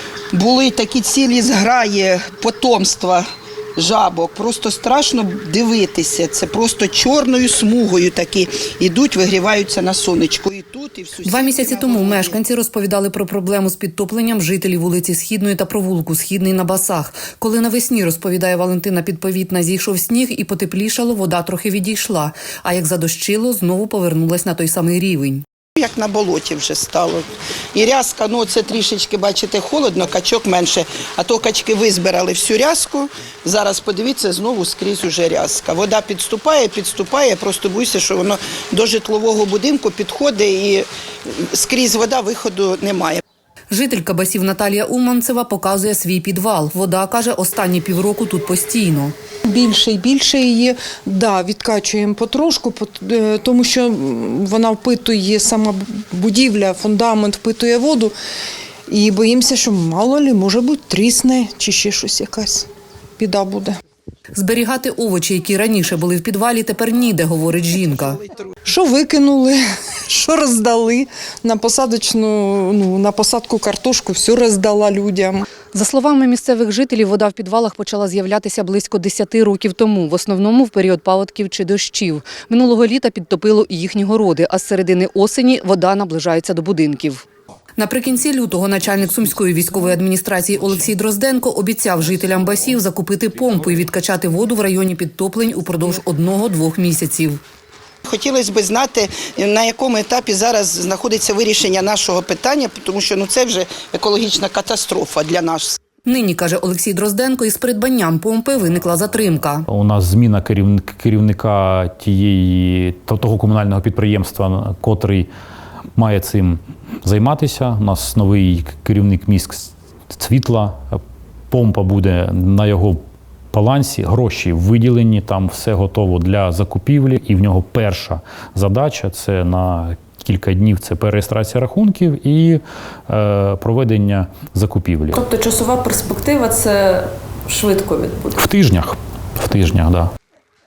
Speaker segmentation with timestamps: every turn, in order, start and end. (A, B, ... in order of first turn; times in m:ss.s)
0:00.3-0:03.2 A
0:03.8-0:12.4 A
0:11.2-0:25.4 B
0:25.8-0:43.2 A
0:43.7-0:49.2 B
0:49.4-0:58.1 C
0:58.9-1:02.7 C
1:03.2-1:03.8 C
1:04.4-1:08.2 B
1:08.6-1:15.5 C
1:15.7-1:27.2 B
1:27.8-1:37.4 B
1:38.0-1:45.8 A
1:46.1-1:49.7 B
1:49.7-1:55.3 D
1:56.0-2:01.0 D
2:01.5-2:03.0 D
2:03.5-2:15.2 D
2:15.1-2:18.4 E
2:18.4-2:20.1 D